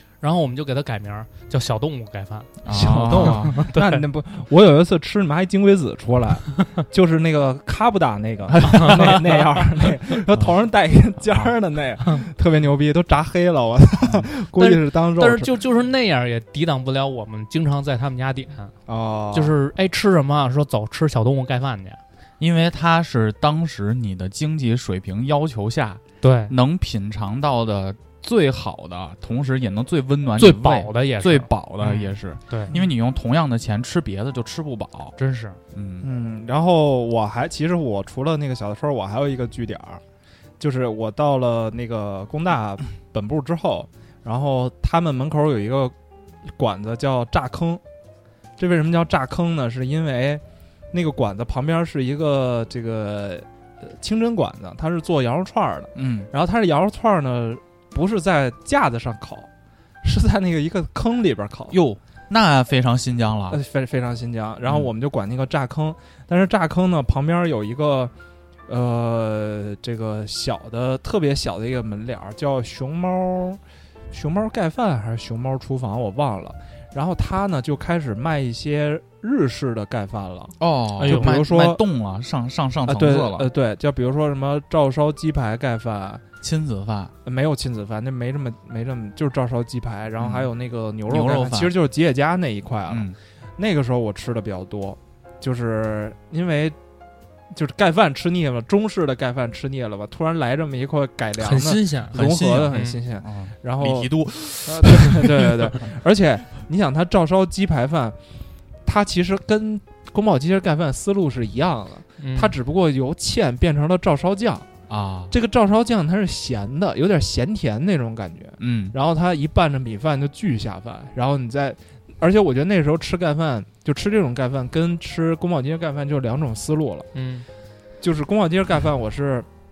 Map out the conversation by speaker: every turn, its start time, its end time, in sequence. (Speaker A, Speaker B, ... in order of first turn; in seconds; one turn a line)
Speaker A: 0.2-4.0
Speaker B: 2.6-3.6
Speaker C: 2.7-15.5
Speaker B: 8.6-9.2
Speaker A: 8.6-9.2
Speaker A: 14.6-18.7
Speaker C: 18.9-19.6
Speaker A: 19.3-22.0
Speaker B: 22.4-35.1
Speaker A: 26.2-26.5
Speaker A: 30.4-32.7
Speaker A: 35.2-35.6
Speaker B: 35.7-36.1
Speaker C: 36.0-40.0
Speaker C: 40.6-45.9
Speaker C: 46.5-47.8
Speaker C: 48.6-59.5
Speaker B: 56.0-56.3
Speaker C: 60.0-61.8
Speaker B: 61.7-63.6
Speaker C: 63.5-68.1
Speaker C: 68.7-73.6
Speaker C: 74.1-81.8
Speaker B: 80.6-83.5
Speaker A: 81.0-81.4
Speaker C: 82.9-86.2
Speaker B: 86.4-87.1
Speaker C: 87.2-93.1
Speaker B: 90.2-90.5
Speaker B: 91.1-91.8
Speaker B: 92.9-93.2
Speaker C: 93.6-96.8
Speaker C: 97.5-108.2
Speaker A: 101.4-102.2
Speaker B: 102.1-105.8
Speaker C: 108.8-114.7
Speaker A: 112.2-112.5
Speaker B: 114.9-115.3
Speaker C: 115.3-127.1
Speaker B: 118.6-119.0
Speaker A: 127.1-127.5
Speaker C: 128.0-129.5